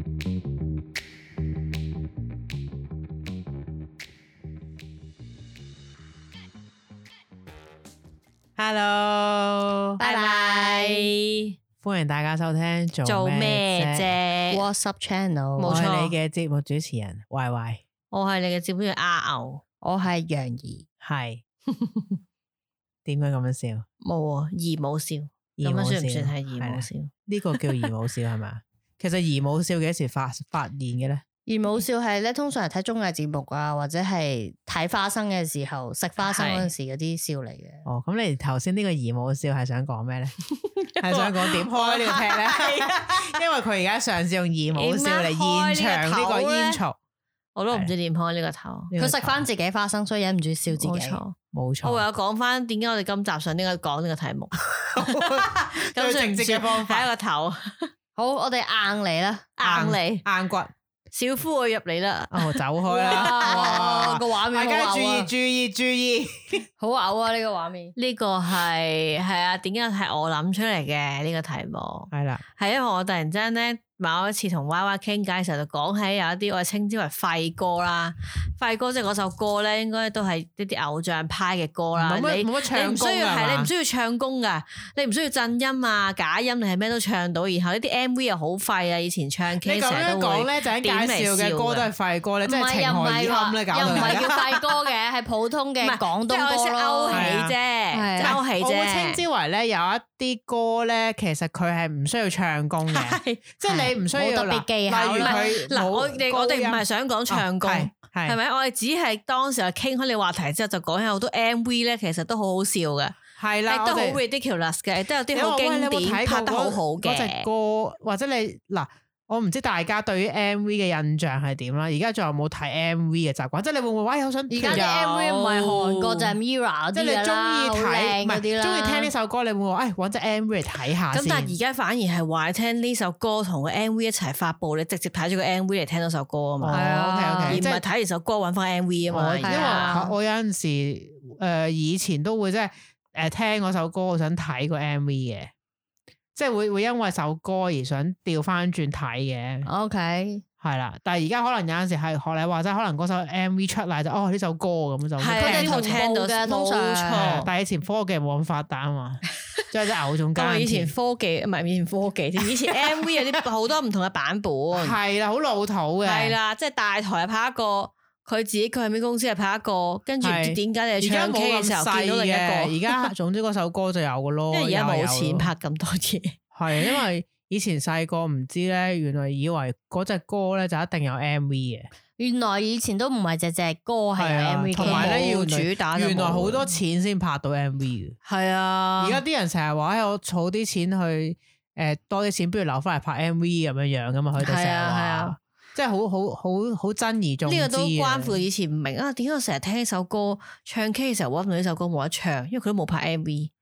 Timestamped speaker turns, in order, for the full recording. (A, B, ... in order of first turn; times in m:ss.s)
0:08.6-0:10.0 A
0:10.0-0:11.1 B
0:10.0-0:11.5 C
0:11.8-0:14.1 A
0:13.0-0:14.6 C
0:14.5-0:15.8 B
0:15.6-0:16.1 C
0:15.6-0:17.8 A
0:18.1-0:19.6 C
0:19.8-0:20.8 B
0:21.0-0:21.4 A
0:21.7-0:22.0 C
0:23.0-0:23.8 A
0:24.0-0:27.9 C
0:25.6-0:31.2 A
0:31.5-0:37.8 B
0:36.2-0:36.7 C
0:37.8-0:40.4 A
0:40.6-0:43.4 C
0:41.0-0:47.0 A
0:44.7-0:46.8 C
0:47.6-0:48.9 C
0:48.9-0:49.4 A
0:49.0-0:51.2 B
0:50.7-0:57.9 C
0:51.5-0:52.0 A
0:54.9-0:57.1 A
0:58.2-0:59.5 B
0:59.6-1:00.2 C
0:59.6-1:00.7 A
1:01.1-1:03.8 C
1:02.3-1:06.6 A
1:02.9-1:05.3 B
1:06.8-1:07.9 B
1:08.0-1:31.9 C
1:12.1-1:12.4 A
1:22.0-1:23.7 A
1:29.6-1:34.3 A
1:32.4-1:37.3 B
1:33.8-1:34.7 C
1:35.8-1:39.2 C
1:37.1-1:37.6 A
1:37.9-1:38.4 B
1:38.2-1:48.4 A
1:42.9-1:43.5 C
1:43.7-1:45.4 B
1:45.2-1:53.2 C
1:53.4-1:54.2 A
1:53.7-1:57.4 C
1:55.3-2:04.9 A
2:04.5-2:09.1 B
2:04.7-2:06.3 C
2:06.9-2:11.6 A
2:11.1-2:16.9 C
2:16.6-2:17.8 A
2:16.7-2:17.6 B
2:17.4-2:20.0 C
2:19.1-2:25.5 A
2:19.4-2:20.1 B
2:26.3-2:29.7 A
2:29.6-2:30.4 B
2:30.6-2:36.0 A
2:35.2-2:37.5 C
2:35.4-2:37.4 B
2:37.2-2:40.9 A
2:40.4-2:45.0 C
2:42.7-2:43.2 A
2:44.7-2:46.4 A
2:46.0-2:53.1 C
2:50.2-2:55.5 A
2:54.5-2:57.0 C
2:56.5-3:01.9 A
3:02.2-3:05.3 B
3:04.2-3:08.2 A
3:04.8-3:06.7 C
3:08.2-3:09.2 C
3:09.0-3:18.4 A
3:14.4-3:15.3 C
3:17.4-3:23.5 C